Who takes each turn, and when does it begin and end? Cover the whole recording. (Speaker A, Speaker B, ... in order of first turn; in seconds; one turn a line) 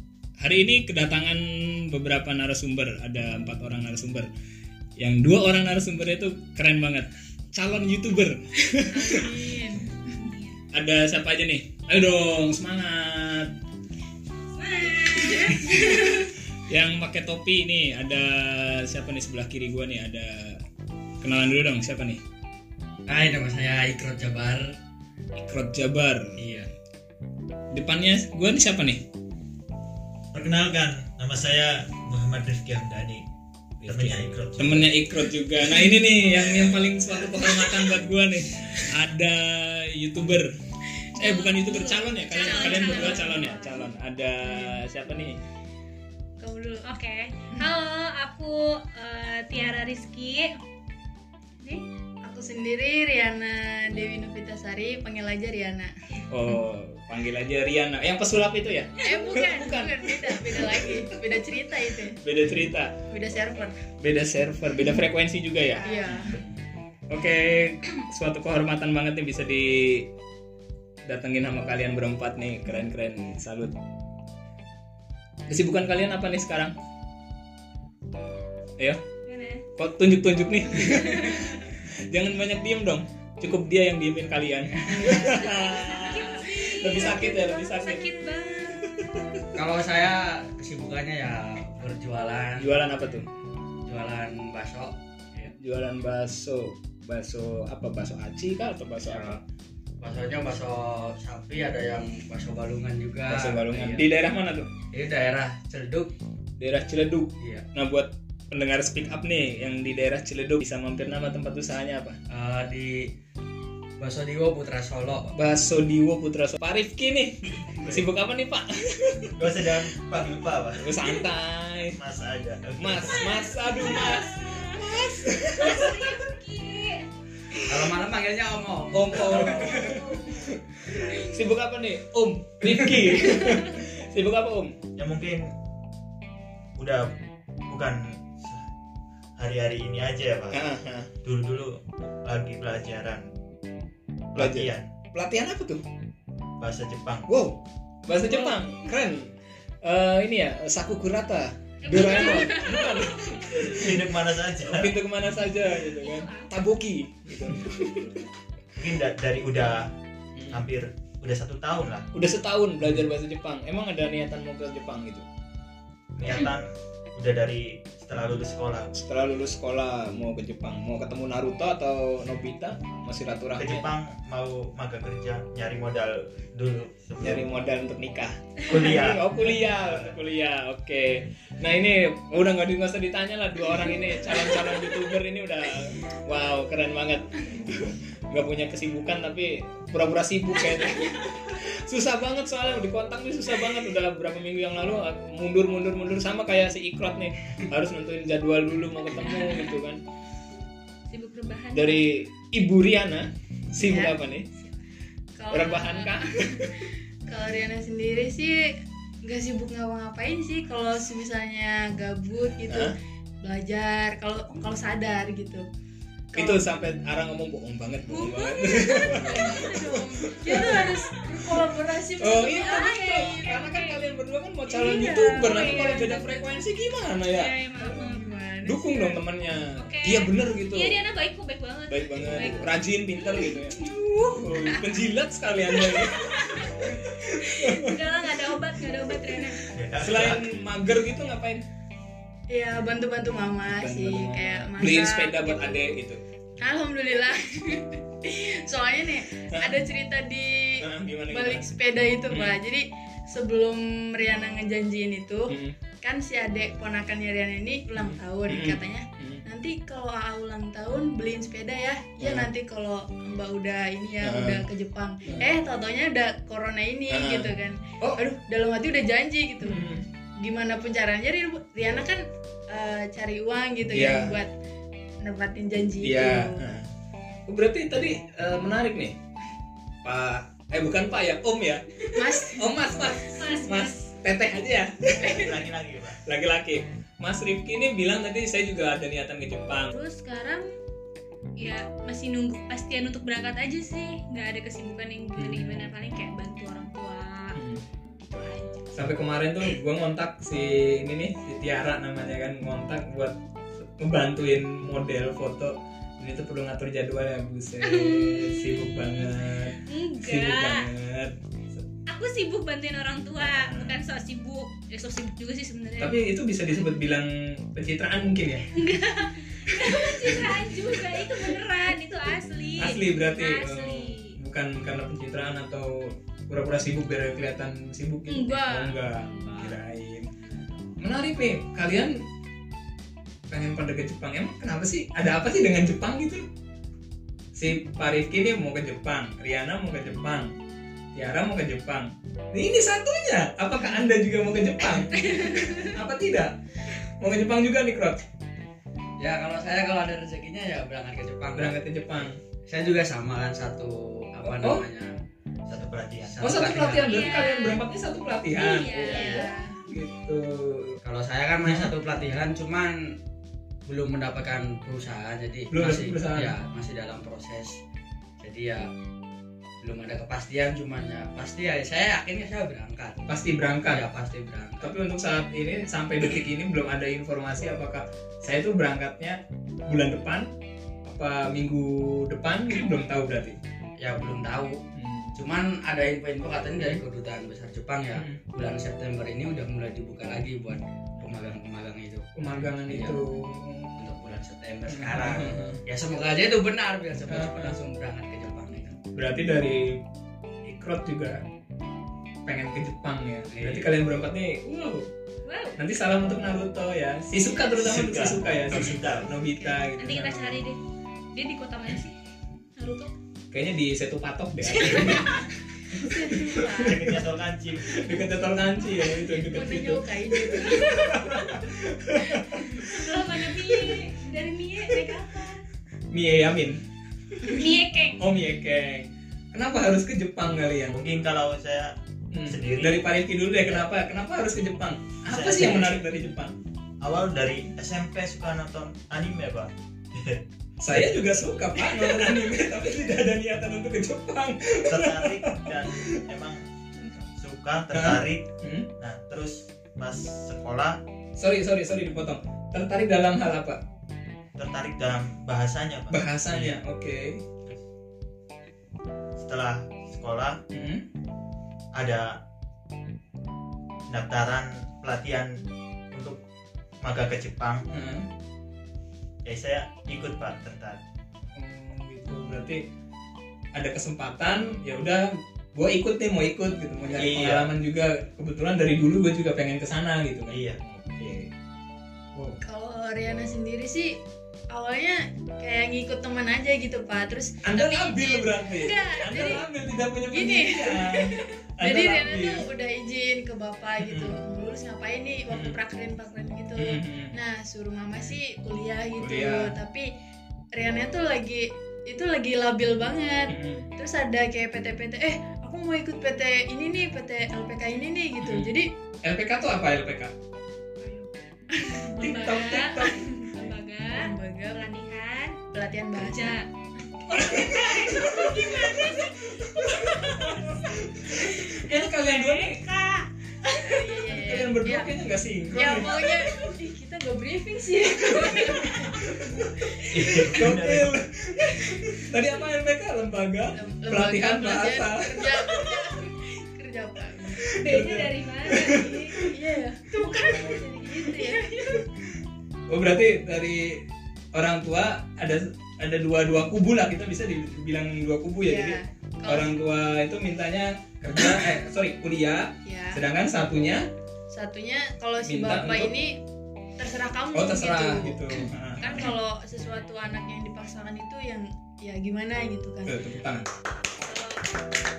Speaker A: 0.4-4.3
Speaker A: 5.0-9.5
Speaker B: 8.9-10.3
Speaker C: 10.1-10.6
Speaker A: 10.7-13.5
Speaker C: 14.6-16.2
Speaker B: 15.3-16.1
Speaker A: 15.6-20.6
Speaker A: 21.2-22.2
Speaker D: 23.1-24.8
Speaker A: 25.4-26.4
Speaker D: 26.4-26.7
Speaker A: 27.7-29.0
Speaker E: 30.3-33.2
Speaker A: 33.8-40.5
Speaker E: 33.9-35.0
Speaker A: 41.1-45.4
Speaker C: 41.2-43.8
Speaker B: 42.3-43.8
Speaker C: 46.4-50.6
Speaker B: 52.2-55.9
Speaker A: 56.3-61.2
Speaker B: 59.0-62.2
Speaker A: 61.8-62.9
Speaker B: 63.1-63.8
Speaker A: 64.0-65.9
Speaker C: 65.8-66.1
Speaker B: 65.8-66.3
Speaker D: 66.1-66.6
Speaker A: 67.1-70.1
Speaker A: 71.1-73.8
Speaker A: 75.5-76.7
Speaker C: 79.3-79.7
Speaker A: 79.8-88.2
Speaker C: 81.0-81.5
Speaker D: 84.8-85.4
Speaker C: 85.3-89.1
Speaker A: 88.8-89.6
Speaker D: 89.5-92.8
Speaker A: 92.6-93.3
Speaker D: 93.8-95.5
Speaker A: 95.6-99.4
Speaker D: 99.0-99.4
Speaker D: 100.0-104.1
Speaker A: 103.3-104.7
Speaker D: 104.9-106.1
Speaker A: 106.6-112.2
Speaker D: 107.4-107.7
Speaker D: 112.3-113.1
Speaker D: 114.0-115.3
Speaker A: 115.3-119.4
Speaker E: 119.4-121.2
Speaker A: 120.8-122.0
Speaker E: 122.0-123.3
Speaker A: 122.8-126.2
Speaker C: 123.1-127.1
Speaker D: 127.5-130.1
Speaker A: 128.9-134.7
Speaker E: 134.9-135.5
Speaker E: 136.8-137.1
Speaker E: 137.7-138.7
Speaker E: 139.3-140.7
Speaker A: 140.5-141.1
Speaker E: 141.2-143.3
Speaker E: 144.3-144.9
Speaker A: 144.3-145.8
Speaker E: 146.6-147.3
Speaker A: 147.3-154.0
Speaker C: 148.1-148.9
Speaker C: 151.8-153.8
Speaker E: 153.5-155.0
Speaker A: 154.6-158.2
Speaker C: 155.7-156.5
Speaker E: 158.8-159.9
Speaker A: 160.3-160.6
Speaker E: 160.5-162.1
Speaker A: 162.1-165.2
Speaker E: 166.2-168.9
Speaker A: 168.9-173.9
Speaker E: 173.6-177.4
Speaker A: 177.2-200.0
Speaker E: 178.7-180.1
Speaker C: 199.4-199.7
Speaker C: 201.1-202.1
Speaker A: 201.7-204.5
Speaker B: 203.8-204.1
Speaker C: 204.6-204.8
Speaker B: 205.3-215.6
Speaker A: 205.5-206.9
Speaker A: 212.7-212.9
Speaker B: 216.3-216.6
Speaker A: 216.3-227.5
Speaker C: 218.1-219.6
Speaker B: 218.6-223.6
Speaker C: 220.6-221.3
Speaker C: 222.5-224.1
Speaker B: 224.7-226.1
Speaker C: 225.4-226.2
Speaker C: 227.3-228.3
Speaker B: 227.8-229.2
Speaker A: 228.6-231.0
Speaker C: 229.8-233.9
Speaker A: 231.9-238.0
Speaker C: 235.9-239.6
Speaker B: 236.5-237.0
Speaker E: 239.7-240.5
Speaker A: 240.0-241.6
Speaker B: 242.5-245.9
Speaker A: 243.7-246.2
Speaker B: 246.6-269.8
Speaker A: 249.5-249.8
Speaker A: 250.8-251.7
Speaker A: 252.3-252.6
Speaker A: 255.5-255.7
Speaker A: 257.9-259.4
Speaker A: 262.2-262.5
Speaker A: 264.2-264.7
Speaker A: 267.1-268.2
Speaker A: 269.6-270.1
Speaker B: 270.4-274.5
Speaker A: 273.9-274.4
Speaker B: 275.2-276.6
Speaker A: 276.0-276.9
Speaker A: 277.5-279.1
Speaker A: 280.0-285.6
Speaker B: 282.1-282.7
Speaker C: 283.3-284.1
Speaker E: 285.2-286.2
Speaker A: 286.2-289.9
Speaker C: 289.9-290.7
Speaker C: 291.6-297.6
Speaker A: 295.4-295.9
Speaker A: 297.6-297.8
Speaker C: 298.2-299.0
Speaker A: 298.9-311.8
Speaker C: 307.8-309.3
Speaker C: 309.9-310.9
Speaker C: 312.1-316.9
Speaker A: 313.4-314.0
Speaker A: 316.0-318.7
Speaker C: 318.7-324.4
Speaker A: 319.8-320.6
Speaker A: 322.8-330.3
Speaker C: 328.3-329.8
Speaker C: 330.4-330.7
Speaker A: 331.0-332.2
Speaker A: 333.5-336.4
Speaker A: 337.6-340.5
Speaker A: 341.1-348.2
Speaker C: 345.0-345.9
Speaker D: 349.2-355.1
Speaker A: 351.6-352.4
Speaker A: 354.5-354.9
Speaker E: 355.7-356.4
Speaker D: 356.2-357.5
Speaker A: 356.4-361.0
Speaker C: 357.0-357.9
Speaker C: 358.5-359.7
Speaker D: 359.0-359.3
Speaker B: 359.1-359.8
Speaker D: 361.0-363.2
Speaker E: 361.6-361.9
Speaker D: 363.9-367.8
Speaker A: 365.7-366.6
Speaker D: 368.4-368.9
Speaker D: 369.8-373.3
Speaker A: 373.2-374.1
Speaker D: 373.8-374.9
Speaker A: 374.8-380.5
Speaker A: 381.1-383.6
Speaker D: 384.0-384.8
Speaker A: 384.9-385.4
Speaker D: 385.4-393.3
Speaker A: 386.8-387.0
Speaker A: 388.2-388.4
Speaker A: 392.4-394.1
Speaker D: 394.0-399.0
Speaker A: 394.9-395.8
Speaker A: 397.3-397.8
Speaker A: 399.1-400.0
Speaker A: 400.6-401.4
Speaker A: 402.5-405.1
Speaker D: 403.5-403.9
Speaker C: 405.4-405.8
Speaker A: 405.8-410.6
Speaker E: 407.7-409.3
Speaker B: 409.4-409.9
Speaker C: 410.0-410.8
Speaker C: 411.4-412.2
Speaker C: 412.8-413.1
Speaker A: 413.5-417.0
Speaker C: 414.7-415.4
Speaker B: 415.0-415.4
Speaker B: 415.9-417.2
Speaker E: 416.9-418.1
Speaker A: 417.9-423.1
Speaker B: 419.3-421.6
Speaker B: 422.3-422.9
Speaker C: 422.8-425.6
Speaker A: 426.1-426.8
Speaker C: 427.4-428.2
Speaker A: 428.2-430.9
Speaker E: 430.9-431.9
Speaker A: 432.3-436.5
Speaker E: 432.5-433.1
Speaker E: 435.3-436.1
Speaker E: 437.0-440.4
Speaker A: 440.8-446.2
Speaker E: 444.9-446.6
Speaker E: 447.3-448.5
Speaker A: 447.9-448.9
Speaker E: 449.0-451.0
Speaker A: 451.4-453.8
Speaker E: 454.6-456.7
Speaker A: 456.1-457.4
Speaker E: 459.4-460.6
Speaker A: 460.7-461.1
Speaker E: 461.9-462.4
Speaker E: 464.1-466.4
Speaker E: 467.0-467.9
Speaker A: 467.9-468.3
Speaker E: 469.4-471.0
Speaker A: 471.6-472.8
Speaker A: 473.7-481.5
Speaker E: 477.1-477.7
Speaker E: 480.5-480.8
Speaker B: 482.6-484.2
Speaker B: 484.7-489.6
Speaker A: 487.6-492.7
Speaker B: 490.3-500.1
Speaker A: 494.0-494.4
Speaker A: 495.5-495.8
Speaker A: 496.8-497.4
Speaker A: 499.2-499.8
Speaker B: 500.7-508.9
Speaker A: 503.5-503.9
Speaker A: 508.4-510.3
Speaker C: 511.0-511.3
Speaker B: 511.8-514.8
Speaker C: 512.1-515.6
Speaker A: 512.2-513.2
Speaker B: 515.7-516.6
Speaker C: 516.1-516.7
Speaker C: 517.2-520.6
Speaker A: 517.3-522.8
Speaker B: 517.4-519.1
Speaker C: 521.3-523.3
Speaker B: 523.6-525.1
Speaker A: 523.9-526.8
Speaker B: 525.7-530.5
Speaker A: 528.3-529.8
Speaker E: 530.1-531.2
Speaker A: 530.3-535.8
Speaker B: 531.8-532.2
Speaker B: 533.7-537.8
Speaker A: 537.6-539.5
Speaker C: 537.8-539.5
Speaker B: 539.4-542.0
Speaker C: 540.1-542.0
Speaker A: 542.9-554.1
Speaker B: 548.6-549.7
Speaker B: 552.9-553.2
Speaker B: 554.5-556.4
Speaker A: 555.5-556.1
Speaker B: 557.0-563.2
Speaker A: 557.5-559.4
Speaker A: 563.1-563.7
Speaker B: 564.2-564.7